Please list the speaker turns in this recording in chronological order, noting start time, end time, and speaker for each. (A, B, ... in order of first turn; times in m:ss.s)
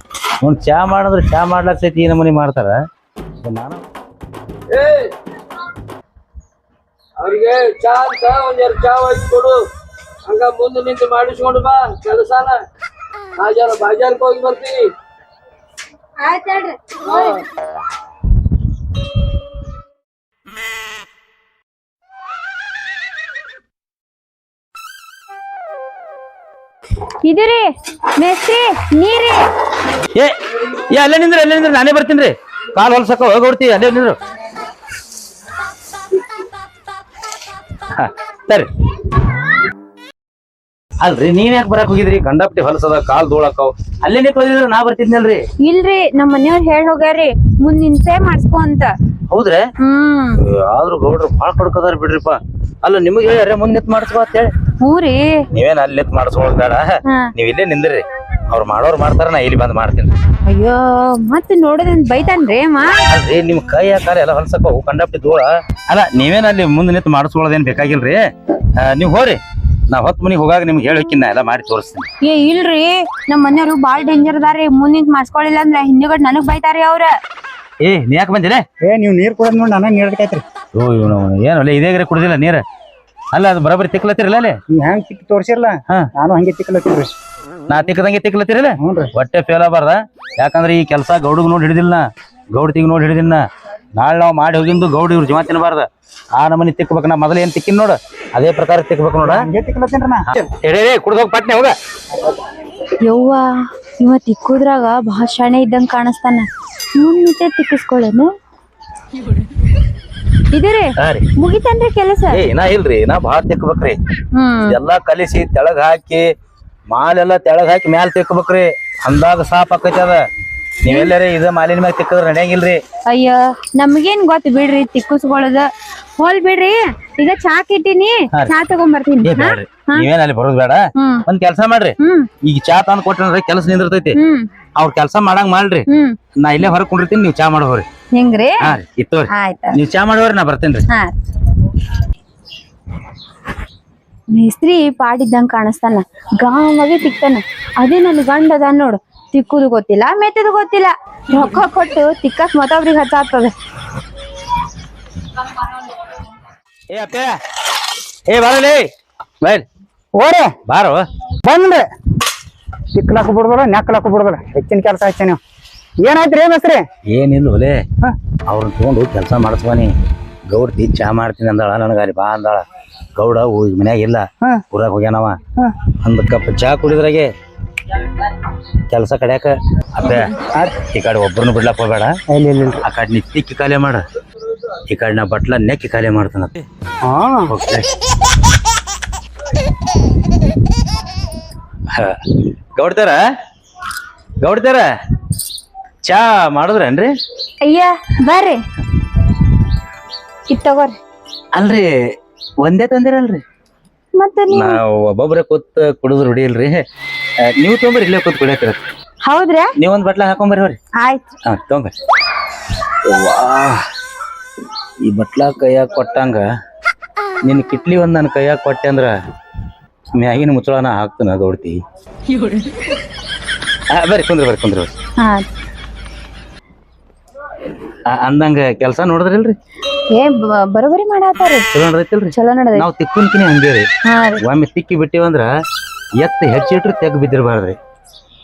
0:00.4-0:02.8 A
0:03.4-0:03.9 A
0:04.7-0:05.1 B
0:07.2-0:09.6 B
0:10.3-0:12.6 B
0:13.4-0:14.9 B
0:16.2-0:17.4 C
0:17.0-0:17.4 B
0:27.2-0:29.4 C
0:30.9-0:34.2 A
0:37.9-0:38.7 A
0:41.0-0:45.4 A
0:45.6-0:48.9 C
0:49.3-0:49.6 A
0:49.8-0:50.4 C
0:50.4-0:54.5 A
0:54.8-0:55.4 C
0:55.5-1:00.1 A
0:57.1-0:57.3 C
1:00.5-1:03.0 C
1:03.1-1:08.2 A
1:08.8-1:09.4 A
1:09.9-1:12.1 A
1:12.2-1:17.1 C
1:17.8-1:18.6 A
1:18.8-1:20.4 D
1:20.7-1:22.6 A
1:23.3-1:24.6 A
1:24.7-1:27.1 D
1:27.7-1:39.4 A
1:28.8-1:29.1 D
1:39.2-1:40.4 D
1:40.3-1:41.8 A
1:43.0-1:48.3 C
1:50.5-1:52.4 C
1:51.0-1:51.3 A
1:52.3-1:54.0 A
1:54.3-1:54.8 C
1:54.7-1:56.3 A
1:56.9-2:00.2 A
2:00.8-2:02.8 A
2:00.9-2:01.1 C
2:03.1-2:10.0 C
2:09.2-2:14.2 A
2:11.0-2:11.2 C
2:12.0-2:12.3 C
2:14.1-2:14.5 C
2:14.8-2:15.9 A
2:15.9-2:16.2 C
2:16.4-2:17.9 A
2:18.1-2:18.6 C
2:18.6-2:20.9 A
2:19.3-2:19.8 C
2:24.3-2:33.5 C
2:36.9-2:37.3 A
2:38.3-2:38.9 A
2:40.2-2:40.5 D
2:40.7-2:41.1 A
2:41.4-2:41.8 D
2:43.0-2:45.4 D
2:46.0-2:46.8 D
2:47.1-2:47.8 A
2:48.5-2:49.9 A
2:50.5-2:52.6 A
2:53.2-2:55.4 A
2:56.0-2:57.3 A
2:58.9-3:02.2 A
3:00.5-3:00.8 D
3:02.3-3:02.8 D
3:02.8-3:04.0 A
3:04.9-3:06.6 A
3:07.0-3:07.5 D
3:07.5-3:07.9 A
3:11.9-3:12.2 A
3:12.8-3:13.2 A
3:14.4-3:14.9 A
3:16.0-3:17.1 A
3:17.6-3:18.6 C
3:20.5-3:21.0 C
3:21.5-3:21.9 A
3:22.6-3:23.4 A
3:24.2-3:24.8 C
3:24.5-3:26.8 A
3:27.5-3:28.9 A
3:29.2-3:29.7 C
3:29.8-3:30.8 A
3:31.0-3:31.2 C
3:31.4-3:31.9 A
3:33.0-3:33.8 A
3:35.0-3:36.4 A
3:37.4-3:39.2 A
3:40.1-3:41.8 A
3:43.9-3:44.9 A
3:45.2-3:45.4 C
3:48.1-3:49.6 A
3:50.1-3:51.7 C
3:51.7-3:53.9 A
3:52.3-3:52.9 C
3:54.0-3:54.4 C
3:54.4-3:55.5 A
3:56.2-3:57.8 A